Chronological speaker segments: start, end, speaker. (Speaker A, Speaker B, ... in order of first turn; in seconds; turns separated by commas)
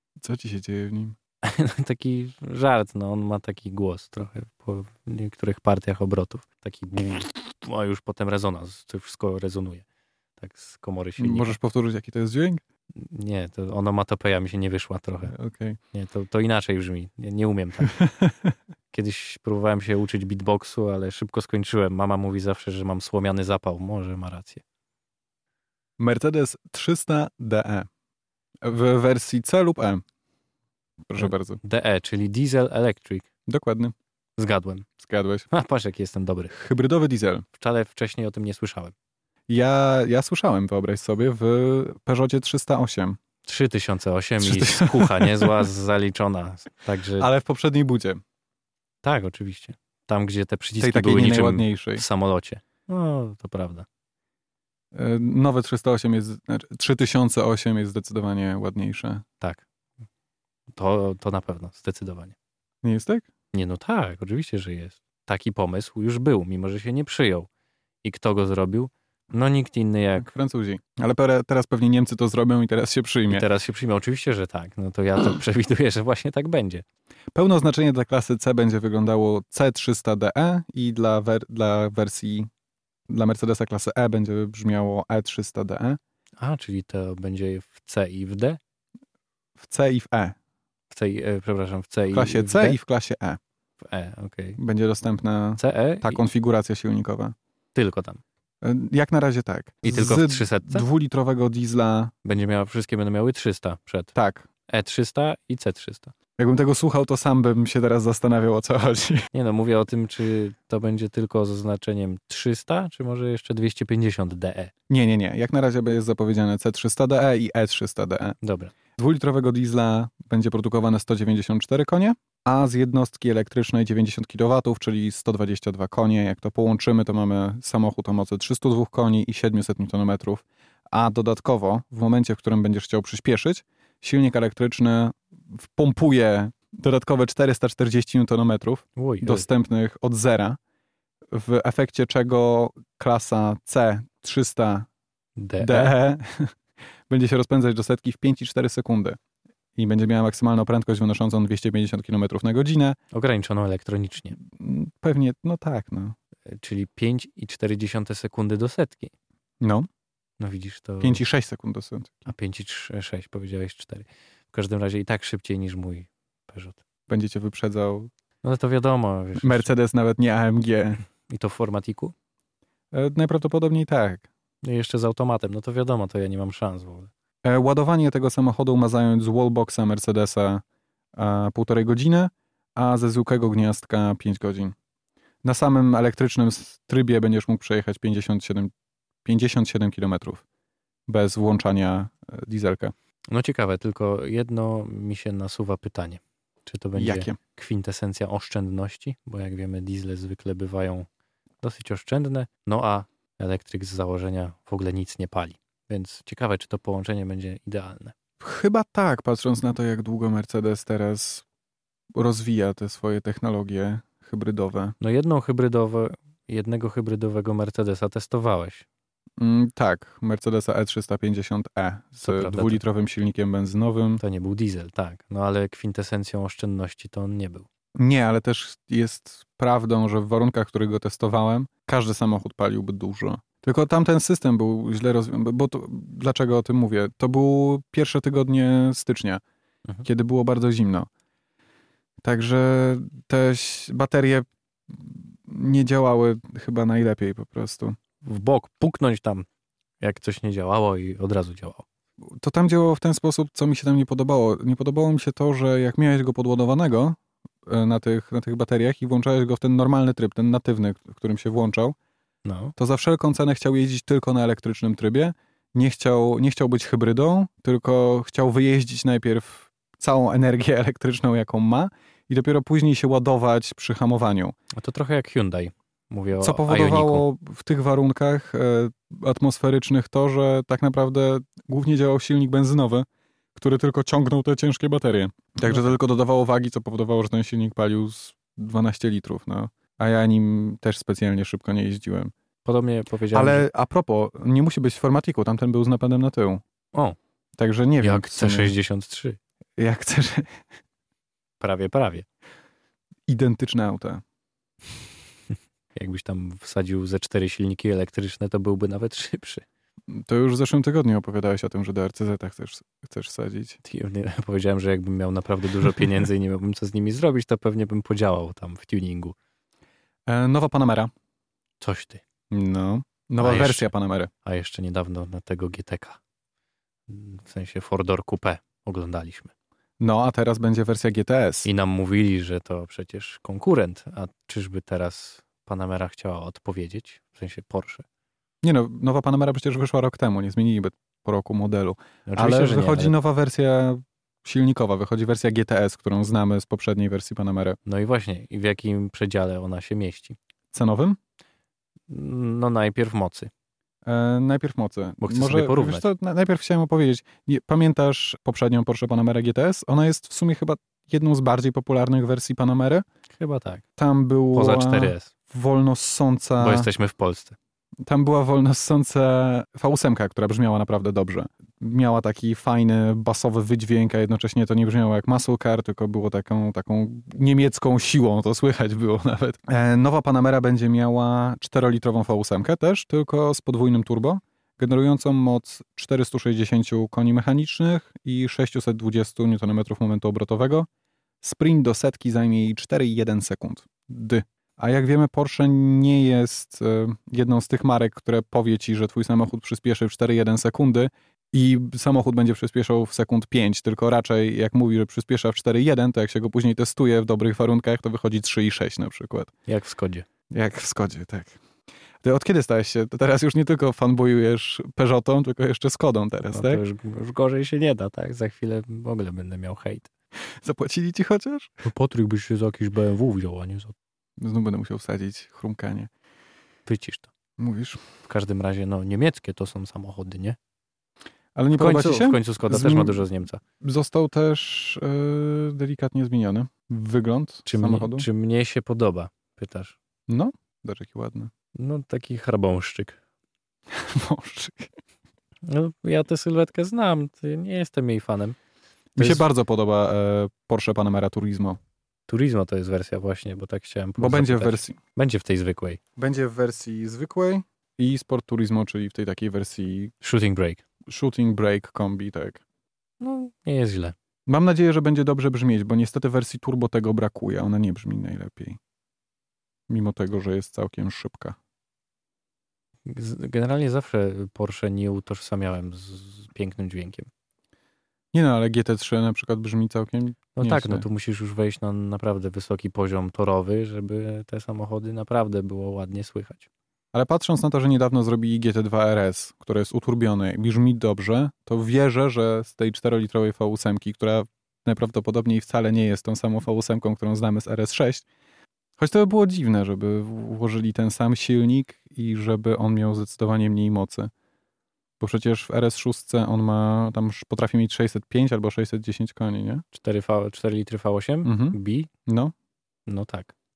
Speaker A: 0.2-1.2, Speaker B: 1.4-9.8, Speaker B: 10.4-11.6, Speaker A: 11.2-12.6, Speaker B: 12.9-15.3, Speaker A: 15.3-15.8, Speaker B: 15.9-17.9, Speaker A: 18.0-18.3, Speaker B: 18.9-24.6, Speaker A: 26.0-27.9, Speaker A: 28.6-30.0, Speaker A: 31.1-31.6, Speaker B: 31.2-33.3, Speaker A: 33.5-33.9, Speaker B: 34.4-34.9, Speaker A: 35.0-35.5, Speaker B: 35.5-36.6, Speaker A: 36.5-37.5, Speaker B: 37.5-38.9, Speaker A: 39.5-43.2, Speaker B: 43.5-47.3, Speaker A: 44.4-45.7, Speaker A: 47.2-48.2, Speaker B: 49.0-53.9, Speaker A: 50.8-52.0, Speaker A: 54.9-59.2, Speaker B: 60.7-62.4, Speaker A: 62.8-63.3, Speaker B: 63.5-67.5, Speaker B: 68.0-70.3, Speaker A: 70.2-73.5, Speaker B: 73.3-76.8, Speaker A: 77.3-82.5, Speaker A: 83.1-86.0, Speaker B: 86.4-88.6, Speaker A: 89.6-90.4, Speaker B: 90.9-92.8, Speaker A: 92.1-93.4, Speaker B: 93.8-94.6, Speaker A: 94.6-97.3, Speaker B: 95.6-96.2, Speaker B: 97.8-98.2, Speaker A: 98.6-102.1, Speaker B: 99.8-100.8, Speaker B: 102.2-104.1, Speaker A: 104.2-104.5, Speaker B: 104.7-106.1, Speaker A: 106.4-109.3, Speaker B: 109.3-114.7, Speaker A: 114.9-118.4, Speaker B: 118.4-118.7, Speaker A: 119.0-140.6, Speaker B: 139.0-139.5, Speaker A: 141.3-144.9, Speaker B: 145.4-145.9, Speaker A: 145.6-146.5, Speaker A: 147.1-149.2, Speaker A: 149.8-153.0, Speaker B: 153.1-154.4, Speaker A: 154.4-156.2, Speaker B: 156.5-159.1, Speaker A: 159.6-159.9, Speaker B: 160.4-161.2, Speaker A: 161.0-162.3, Speaker B: 162.3-166.8, Speaker A: 167.1-168.1, Speaker B: 168.4-169.7, Speaker A: 169.4-171.0, Speaker B: 171.3-172.1, Speaker A: 172.9-174.3, Speaker B: 174.6-177.1, Speaker A: 177.4-180.6, Speaker A: 181.2-184.8, Speaker A: 185.4-188.7, Speaker A: 189.2-190.4, Speaker A: 191.1-192.9, Speaker B: 193.3-201.1, Speaker A: 197.0-197.4, Speaker B: 201.6-208.2, Speaker A: 208.4-211.4, Speaker A: 212.2-214.9, Speaker B: 215.0-218.9, Speaker A: 219.4-224.2, Speaker B: 222.2-222.8, Speaker B: 224.2-227.7, Speaker A: 228.0-239.4, Speaker A: 240.0-241.1, Speaker A: 242.2-248.0, Speaker B: 248.2-249.5, Speaker B: 250.0-251.9, Speaker A: 252.4-262.0, Speaker B: 262.4-262.7, Speaker A: 262.8-274.6, Speaker B: 274.8-277.3, Speaker A: 276.4-292.3, Speaker B: 292.6-293.6, Speaker A: 293.3-296.6, Speaker A: 297.6-298.7, Speaker B: 298.0-299.4, Speaker A: 299.8-300.6, Speaker B: 301.6-302.3, Speaker A: 303.3-304.2, Speaker B: 305.9-309.6, Speaker A: 310.1-313.8, Speaker B: 313.8-319.4, Speaker A: 320.3-321.1, Speaker B: 321.8-322.2, Speaker A: 322.5-324.3, Speaker B: 323.4-323.9, Speaker B: 324.4-326.2, Speaker B: 327.1-329.5, Speaker A: 330.0-331.7, Speaker B: 331.6-338.1, Speaker A: 338.6-347.8, Speaker B: 342.3-343.1, Speaker B: 347.9-350.4, Speaker A: 350.7-351.2, Speaker B: 352.1-353.5, Speaker A: 354.1-363.1, Speaker B: 355.2-356.1, Speaker B: 363.4-363.9, Speaker A: 364.0-366.9, Speaker B: 364.5-365.3, Speaker B: 366.6-367.6, Speaker A: 368.1-390.9, Speaker A: 391.4-409.5, Speaker B: 409.7-410.3, Speaker A: 410.5-411.6, Speaker A: 412.2-416.8, Speaker B: 416.5-420.1, Speaker A: 420.6-421.8, Speaker B: 421.8-423.9, Speaker A: 424.4-426.1, Speaker B: 426.9-427.3, Speaker A: 427.6-428.0, Speaker B: 428.2-430.6, Speaker A: 431.6-433.2, Speaker B: 431.8-433.6, Speaker A: 433.8-438.3, Speaker B: 437.7-440.0, Speaker A: 440.3-441.5, Speaker B: 441.8-443.2, Speaker A: 443.9-444.9, Speaker B: 445.7-448.6, Speaker A: 449.2-451.8, Speaker B: 449.2-449.4, Speaker B: 452.3-456.0, Speaker A: 454.2-455.0, Speaker A: 456.2-460.1, Speaker B: 460.2-460.8, Speaker A: 461.1-462.6, Speaker B: 463.2-464.1, Speaker A: 464.5-468.8, Speaker A: 469.9-471.6, Speaker B: 473.1-477.3, Speaker A: 478.3-481.1, Speaker B: 480.6-486.7, Speaker A: 487.1-498.2, Speaker A: 499.0-504.3, Speaker A: 505.2-509.8, Speaker B: 509.9-512.1, Speaker A: 511.4-512.5, Speaker B: 513.1-513.5